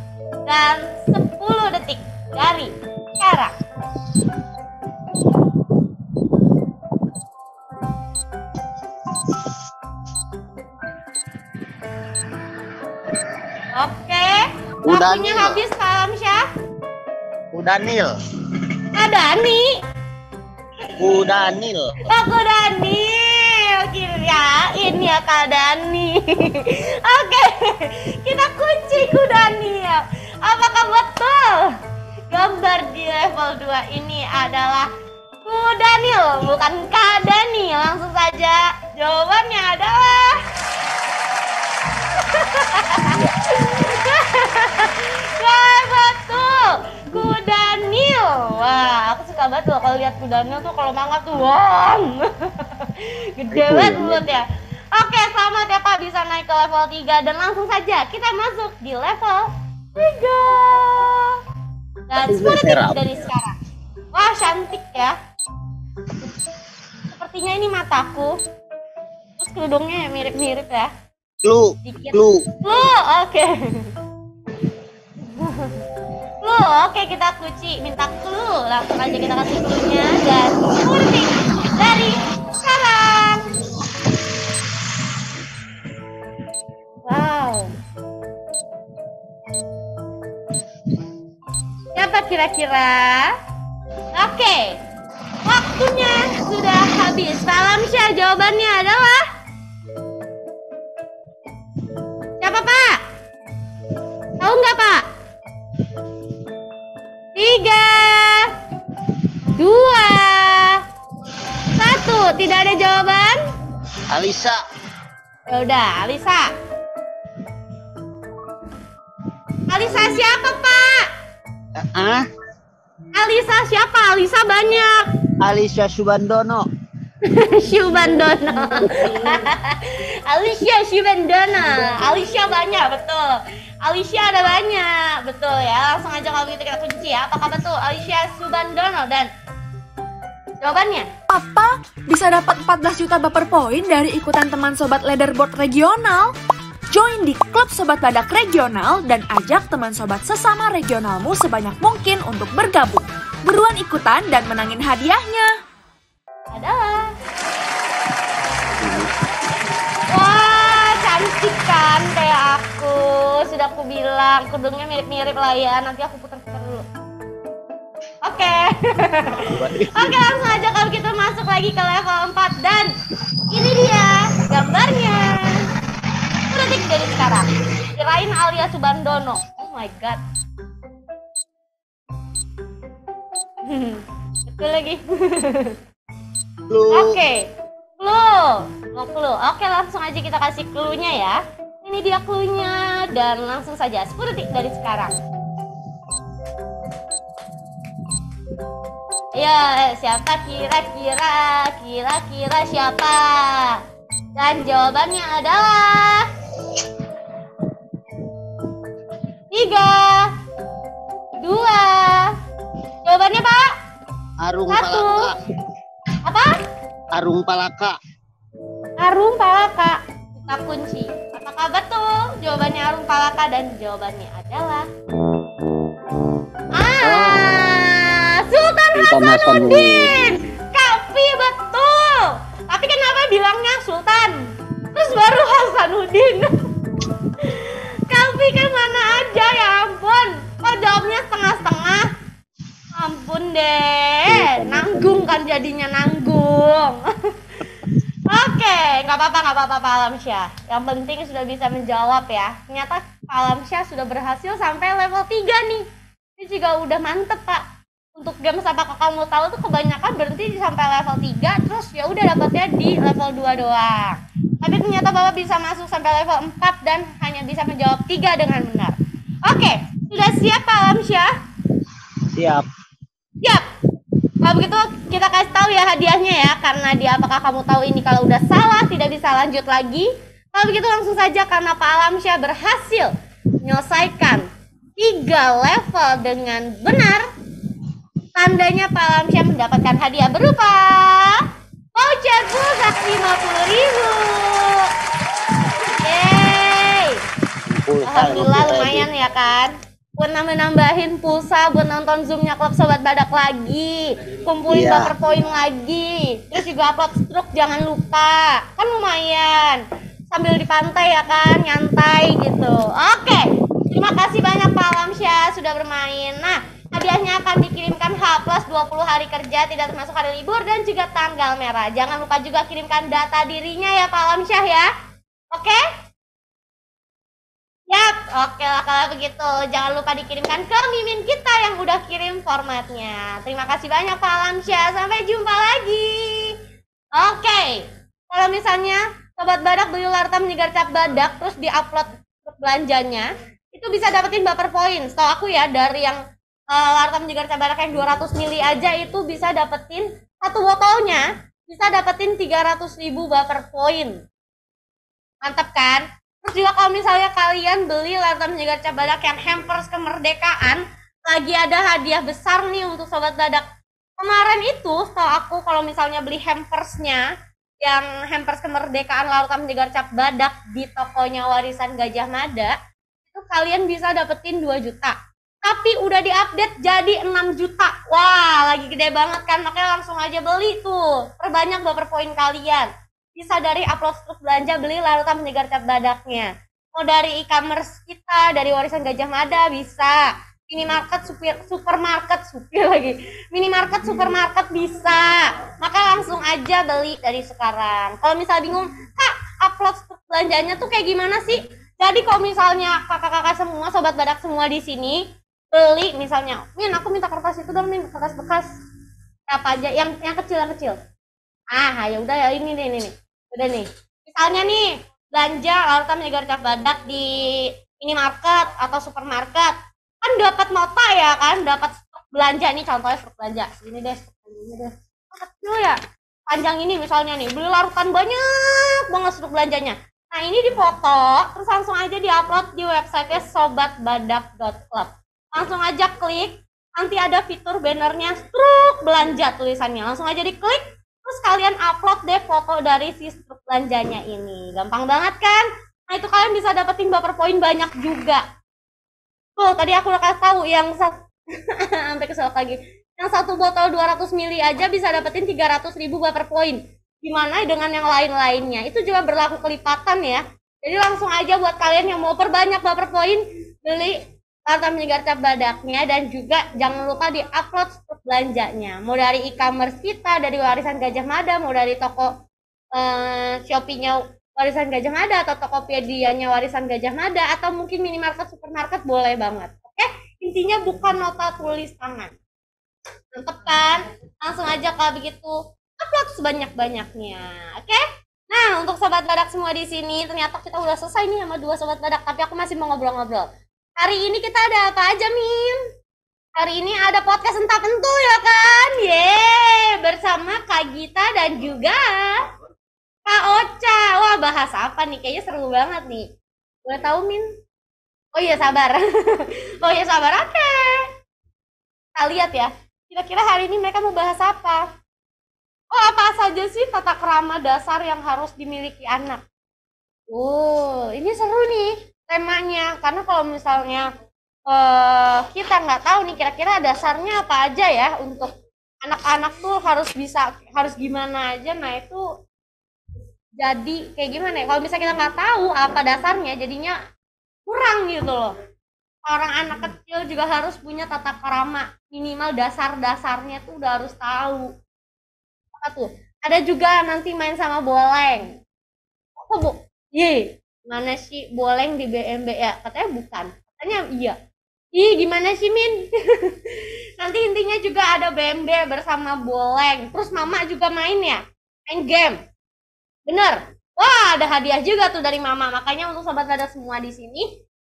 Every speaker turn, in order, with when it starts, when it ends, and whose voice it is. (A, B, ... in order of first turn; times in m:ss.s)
0:00.5-0:03.5 A
0:13.7-0:16.4 A
0:14.8-0:15.6 B
0:17.5-0:18.1 B
0:18.9-0:19.8 A
0:21.0-0:21.9 B
0:22.0-0:31.7 A
0:32.3-0:34.9 A
0:35.4-0:40.4 A
0:42.2-1:01.4 A
0:43.0-0:43.3 B
0:53.5-0:54.2 B
1:02.1-1:03.5 A
1:02.2-1:03.0 B
1:04.1-1:05.1 A
1:07.1-1:08.4 A
1:09.4-1:10.9 A
1:11.4-1:12.5 B
1:11.8-1:13.9 A
1:15.2-1:15.8 A
1:16.4-1:23.5 A
1:27.0-1:27.7 A
1:31.9-1:33.3 A
1:34.1-1:34.8 A
1:35.4-1:39.2 A
1:42.4-1:43.0 A
1:44.4-1:45.0 A
1:47.3-1:48.5 A
1:49.6-1:50.8 A
1:51.7-1:53.4 A
1:54.1-1:54.6 B
1:55.5-1:56.5 A
1:59.7-2:01.1 A
2:01.8-2:02.2 B
2:03.1-2:04.9 A
2:05.4-2:06.6 B
2:07.2-2:19.3 A
2:08.9-2:09.3 B
2:20.6-2:21.1 A
2:21.3-2:26.3 C
2:26.9-2:35.5 C
2:36.5-2:37.1 A
2:38.8-2:39.1 B
2:40.1-2:46.8 A
2:48.2-2:52.9 A
2:49.5-2:50.2 B
2:53.5-2:55.6 A
2:56.5-3:00.2 A
3:03.6-3:05.8 A
3:06.7-3:07.2 B
3:06.9-3:15.1 A
3:19.3-3:23.8 A
3:24.4-3:26.2 A
3:29.5-3:30.3 A
3:31.4-3:32.3 A
3:33.0-3:33.7 A
3:34.4-3:35.4 B
3:34.7-3:35.3 A
3:36.2-3:36.5 A
3:37.1-3:38.0 B
3:39.0-3:44.9 A
3:46.8-3:56.5 A
3:47.0-3:47.6 B
3:48.9-3:50.4 B
3:57.4-4:02.1 A
4:02.9-4:07.3 A
4:04.3-4:05.4 B
4:08.3-4:15.8 A
4:16.4-4:17.6 A
4:18.2-4:31.3 A
4:32.3-4:32.6 B
4:34.4-4:47.3 A
4:48.4-4:51.4 A
4:51.9-4:54.9 A
4:56.0-4:57.2 A
4:57.7-4:59.1 B
4:58.0-5:24.9 A
5:04.7-5:05.1 B
5:25.5-5:25.8 A
5:27.9-5:36.6 A
5:37.1-5:46.2 A
5:46.7-5:54.2 A
5:55.4-6:03.6 A
6:04.2-6:07.3 A
6:07.8-6:12.8 A
6:13.3-6:48.7 A
6:49.5-6:51.0 A
6:51.7-7:28.4 A
7:29.6-7:52.3 A
7:52.9-8:02.3 A
8:03.3-8:15.8 A
8:16.6-8:22.4 A
8:23.2-8:26.3 A
8:26.8-8:27.4 A
8:28.3-8:31.1 A
8:32.2-8:34.8 A
8:35.9-8:39.4 A
8:40.3-8:44.1 A
8:44.7-8:48.5 A
8:49.0-8:52.2 A
8:53.6-8:57.0 A
8:57.7-8:58.6 A
8:59.3-9:04.7 A
9:05.7-9:08.6 A
9:09.4-9:14.4 A
9:14.9-9:22.4 A
9:23.3-9:27.5 A